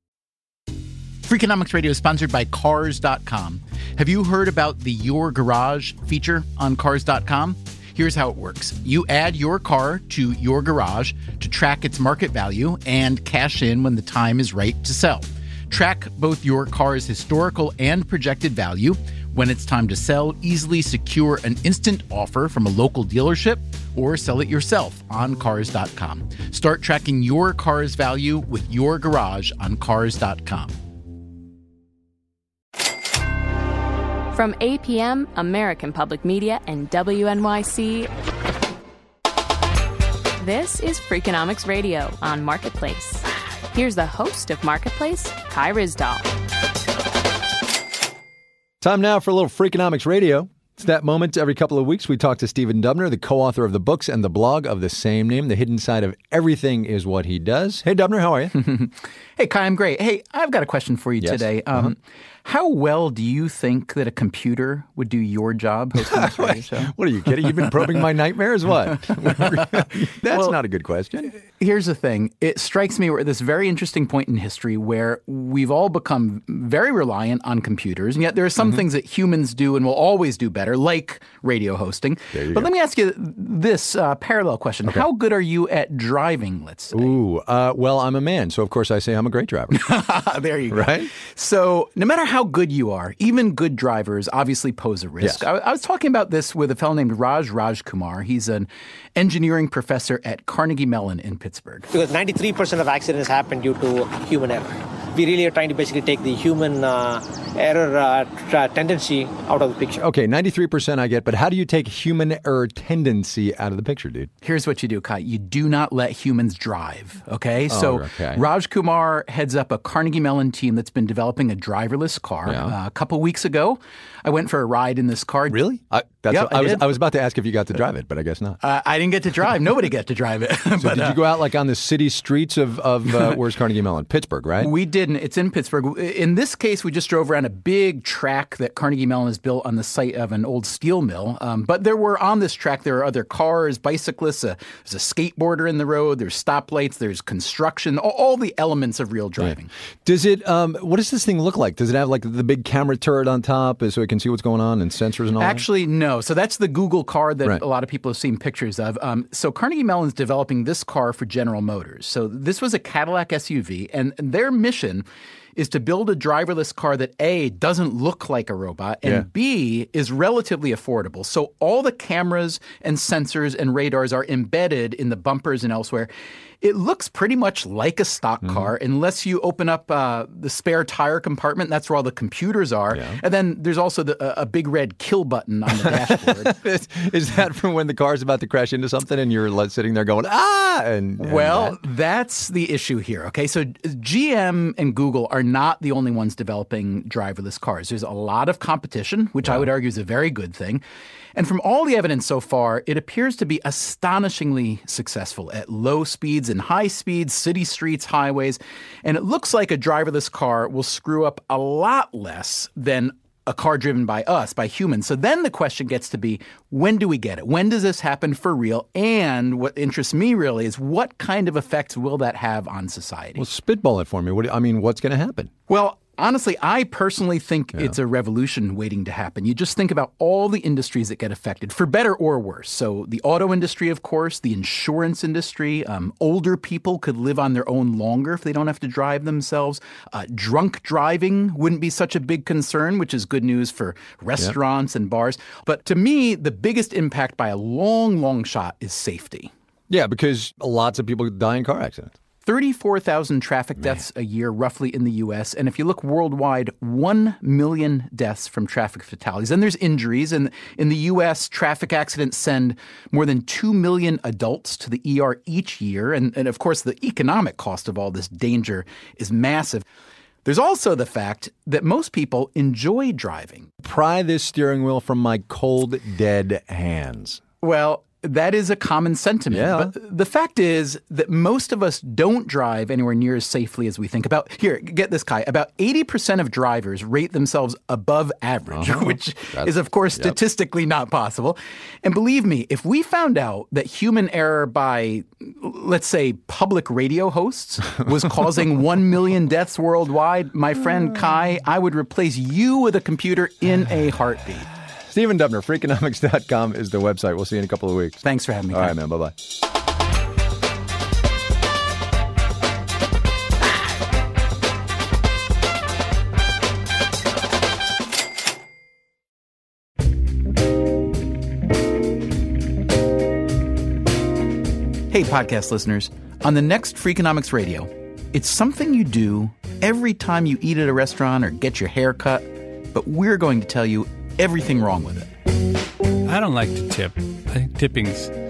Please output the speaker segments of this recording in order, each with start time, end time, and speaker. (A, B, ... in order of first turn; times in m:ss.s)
0:01.2-0:30.7 A
0:34.3-0:38.1 B
0:40.4-0:46.3 B
0:48.8-0:58.6 C
0:58.6-1:06.9 A
1:01.2-1:01.9 C
1:06.1-1:11.3 C
1:07.5-1:07.9 A
1:11.4-1:27.1 A
1:22.3-1:22.7 C
1:26.9-1:29.9 C
1:29.7-1:41.9 A
1:30.7-1:31.1 C
1:35.2-1:35.4 C
1:41.9-1:50.0 D
1:50.0-1:54.3 C
1:54.4-2:05.6 A
1:57.7-1:58.4 C
2:02.4-2:02.8 C
2:05.5-2:08.6 C
2:06.3-2:06.9 A
2:08.6-2:11.2 A
2:10.8-2:14.7 C
2:14.6-2:29.7 A
2:29.4-2:35.6 C
2:35.4-2:45.0 A
2:45.6-2:56.1 A
2:56.6-3:06.5 A
2:58.4-2:58.7 C
3:02.9-3:03.2 C
3:05.8-3:11.8 C
3:11.2-3:20.8 A
3:21.4-3:43.4 A
3:43.4-3:45.5 C
3:45.7-4:09.5 A
4:09.9-4:12.1 C
4:12.4-4:29.8 A
4:30.4-4:33.7 A
4:33.8-4:37.4 C
4:37.6-5:04.7 A
4:39.5-4:39.9 C
4:48.7-4:50.4 C
5:05.1-5:09.3 C
5:08.2-5:09.0 A
5:25.1-5:35.3 A
5:36.2-5:38.3 E